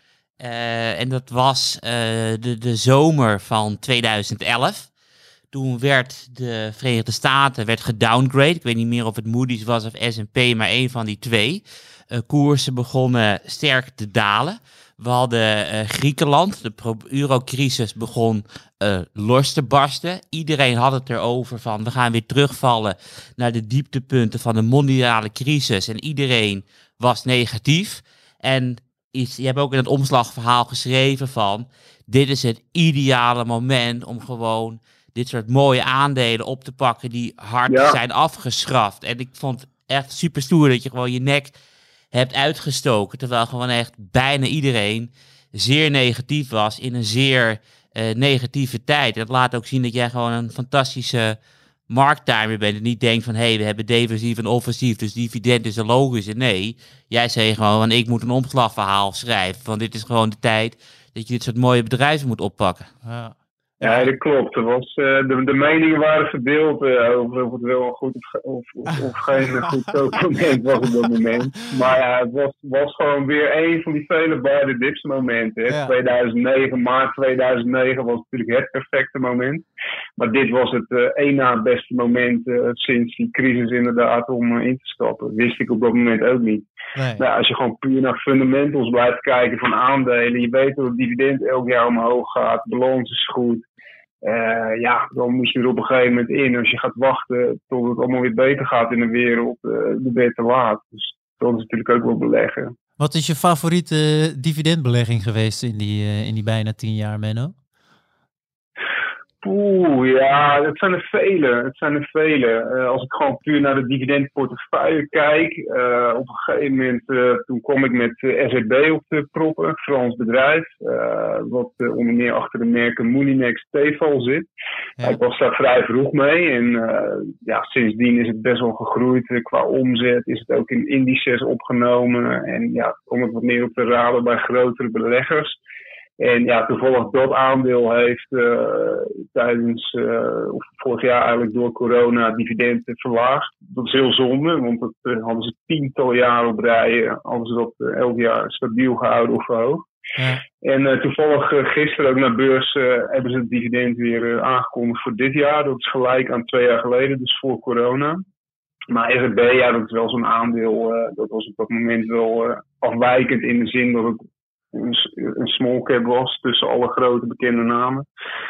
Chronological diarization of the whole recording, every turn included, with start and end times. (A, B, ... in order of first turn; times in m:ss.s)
0:00.4-0:04.9 A
0:05.5-0:41.5 A
0:37.7-0:38.0 B
0:42.1-0:51.4 A
0:51.9-1:02.9 A
1:03.0-1:04.1 C
1:03.8-1:19.6 B
1:15.7-1:15.9 C
1:20.2-1:26.6 B
1:27.0-1:27.2 C
1:27.2-1:33.6 B
1:34.2-1:42.7 B
1:43.0-1:47.5 C
1:49.4-2:04.5 B
2:05.0-2:15.6 B
2:16.2-2:29.8 B
2:30.2-2:30.4 C
2:30.6-2:38.2 B
2:38.9-2:44.2 B
2:44.7-2:48.0 B